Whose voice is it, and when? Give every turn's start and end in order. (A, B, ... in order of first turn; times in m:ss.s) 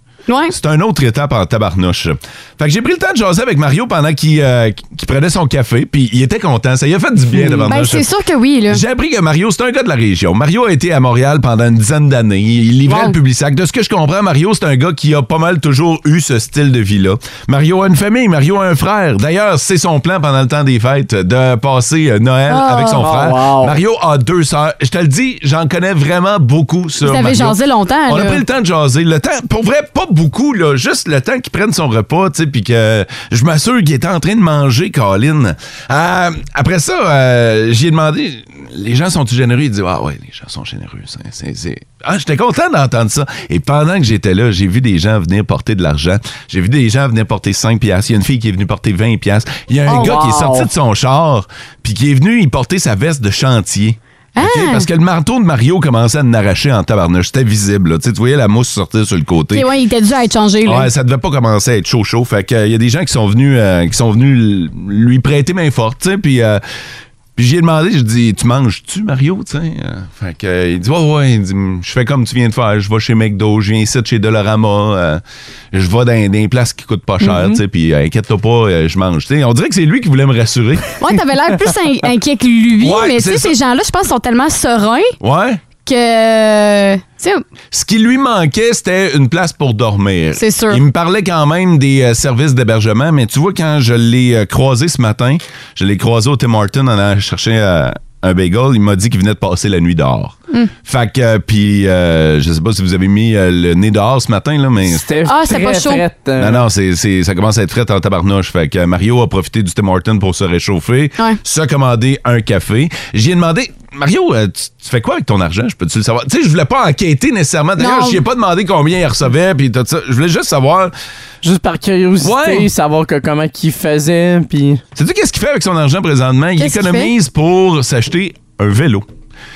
0:00.3-0:00.5 A
0:00.5-0:08.0 B
0:07.4-0:08.8 A
0:08.7-0:59.7 B
0:12.9-0:13.2 A
0:22.5-0:23.1 A
0:23.0-0:23.8 C
0:27.0-0:28.4 A
0:49.9-0:50.7 C
0:54.4-0:54.9 A
0:59.5-1:00.9 A
1:00.6-1:06.6 B
1:07.4-1:20.9 B
1:17.2-1:17.6 C
1:21.0-1:25.2 A
1:22.8-1:23.6 B
1:25.2-1:25.6 B
1:25.8-1:27.4 A
1:27.7-1:45.0 B
1:30.4-1:30.8 A
1:44.8-1:46.6 C
1:45.3-1:46.0 A
1:46.4-2:00.9 B
1:57.8-1:58.2 A
2:01.4-2:04.8 C
2:02.2-2:02.7 B
2:05.0-2:09.1 B
2:06.6-2:07.1 A